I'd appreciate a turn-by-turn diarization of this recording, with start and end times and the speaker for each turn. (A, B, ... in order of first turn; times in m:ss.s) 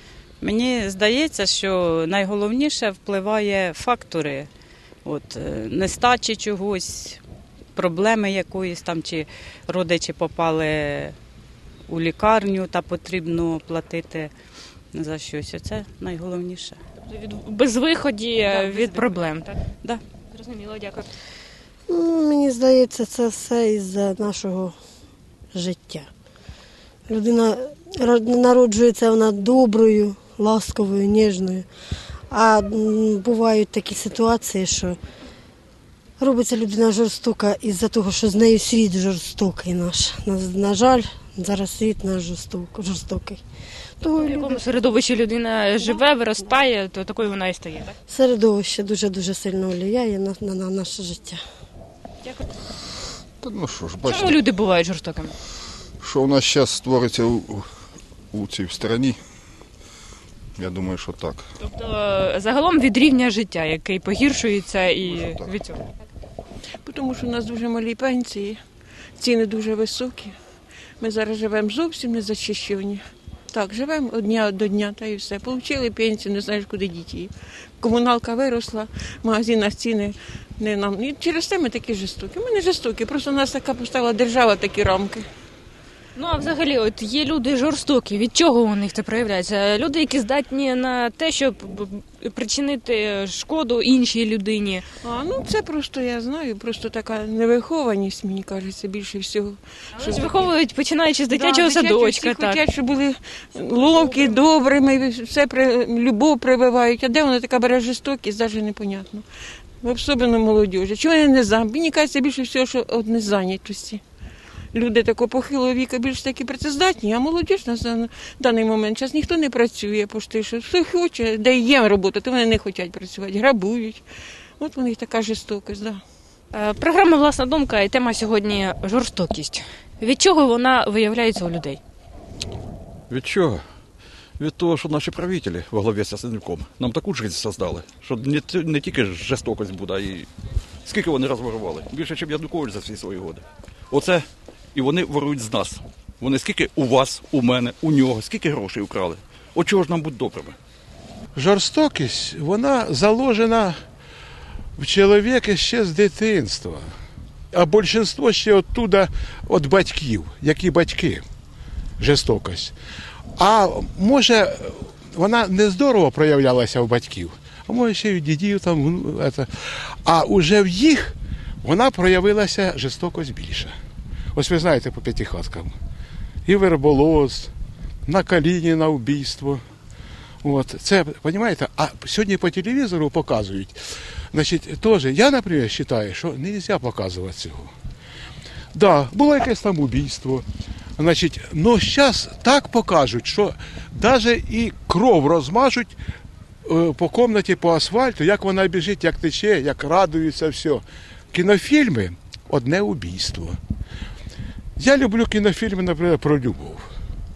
0:00.4-0:04.5 A
0:05.0-0:07.2 A
0:07.7-0:11.2 A
0:11.9-0:14.3 A
0:14.9-0:16.8 A
0:17.0-0:19.5 B
0:20.3-0:21.1 B
0:21.9-0:24.8 C
0:25.5-0:26.1 C
0:27.1-0:31.7 C
0:32.3-0:35.0 C
0:36.2-0:43.4 C
0:44.0-0:44.6 C
0:44.2-0:47.9 B
0:48.1-0:51.4 C
0:53.4-0:54.4 D
0:54.0-0:55.3 B
0:56.0-0:57.7 D
0:58.3-0:59.2 D
1:00.6-1:01.4 D
1:01.6-1:05.8 B
1:05.2-1:05.5 D
1:06.8-1:08.6 E
1:09.2-1:10.3 E
1:11.0-1:25.2 E
1:26.2-1:34.8 B
1:35.0-1:40.5 E
1:40.0-1:42.6 B
1:41.3-1:49.2 E
1:49.8-1:54.0 E
1:54.7-2:04.0 E
2:04.6-2:06.0 E
2:06.5-2:11.8 B
2:13.1-2:13.6 F
2:14.4-2:20.3 F
2:20.8-2:30.6 F
2:31.3-2:33.8 G
2:34.8-2:36.9 G
2:37.5-2:41.2 G
2:42.0-2:42.7 G
2:43.4-2:53.7 G
2:54.3-2:55.7 G
2:56.4-2:57.5 G
2:58.0-2:59.6 G
3:00.4-3:03.8 G
3:04.3-3:07.7 G
3:08.7-3:10.4 G
3:11.0-3:15.9 G
3:16.6-3:23.6 G
3:24.8-3:26.8 G